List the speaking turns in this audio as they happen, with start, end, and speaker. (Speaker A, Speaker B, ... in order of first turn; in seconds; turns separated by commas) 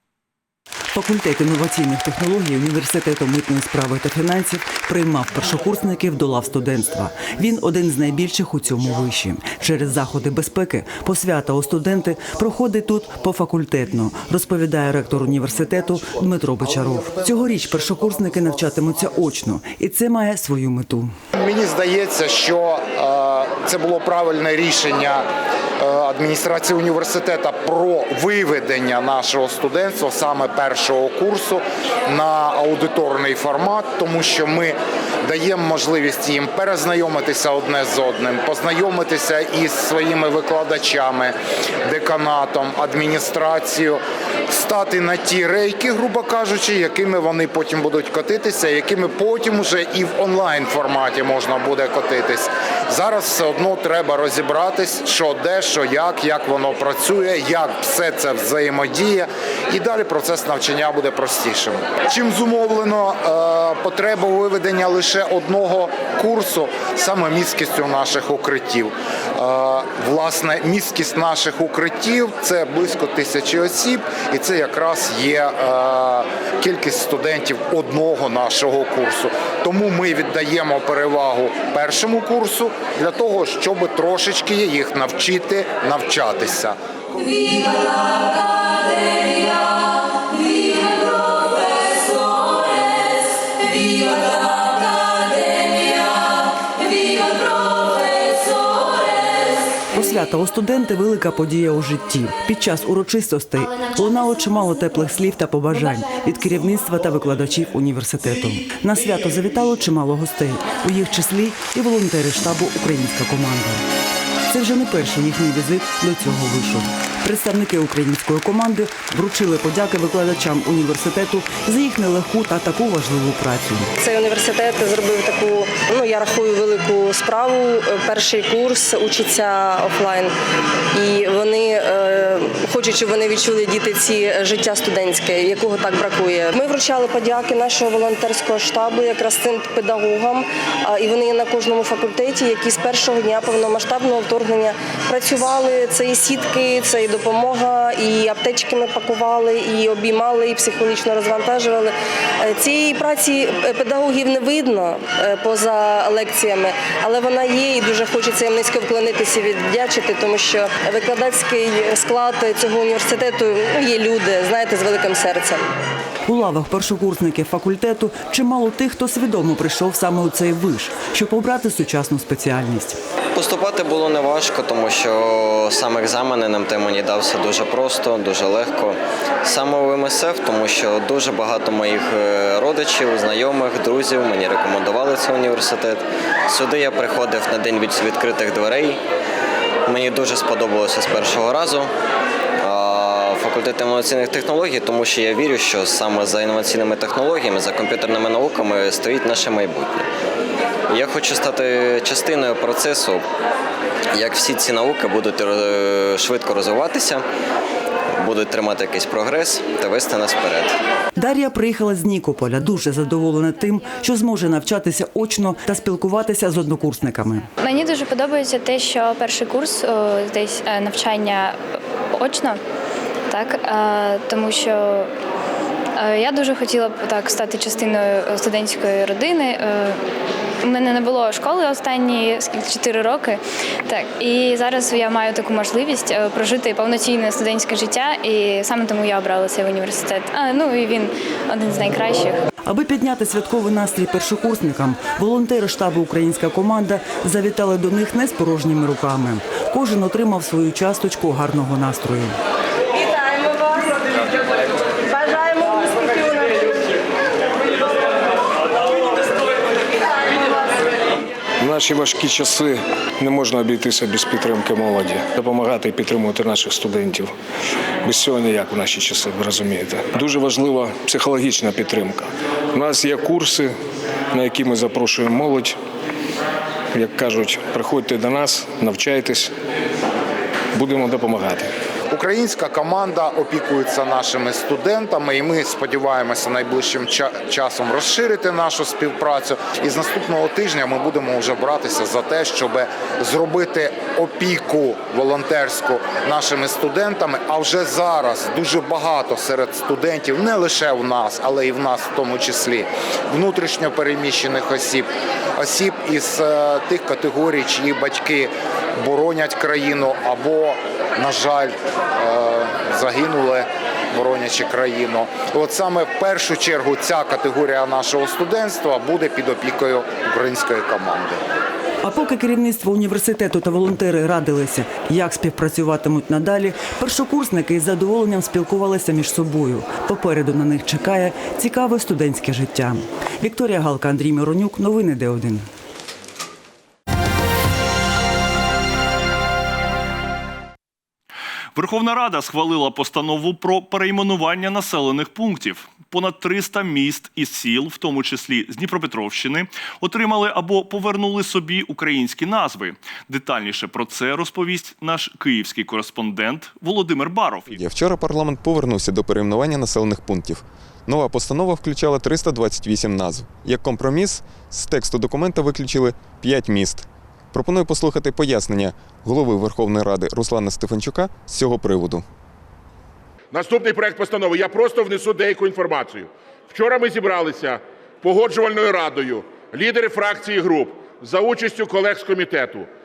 Speaker A: 0.9-21.1, Speaker B: 21.4-25.2, Speaker B: 25.8-41.3, Speaker B: 41.9-86.8, Speaker A: 99.9-113.8, Speaker A: 114.5-123.9, Speaker C: 124.0-130.3, Speaker C: 130.9-165.6, Speaker A: 166.3-173.0, Speaker D: 173.3-189.0, Speaker D: 189.9-191.9, Speaker D: 192.6-200.1, Speaker D: 200.9-203.2, Speaker D: 204.1-207.2, Speaker D: 208.2-210.7, Speaker A: 211.2-217.5, Speaker E: 217.6-221.6, Speaker E: 222.2-222.6, Speaker E: 223.3-225.1, Speaker E: 226.0-230.0, Speaker E: 230.6-242.4, Speaker A: 242.7-252.3, Speaker C: 253.0-253.9, Speaker C: 255.1-256.7, Speaker F: 261.6-267.3, Speaker F: 268.0-273.8, Speaker F: 274.3-275.8, Speaker F: 276.9-279.5, Speaker F: 280.8-281.7, Speaker B: 282.1-321.4, Speaker A: 322.0-335.6, Speaker G: 341.8-357.8, Speaker H: 357.7-372.2, Speaker I: 373.5-382.9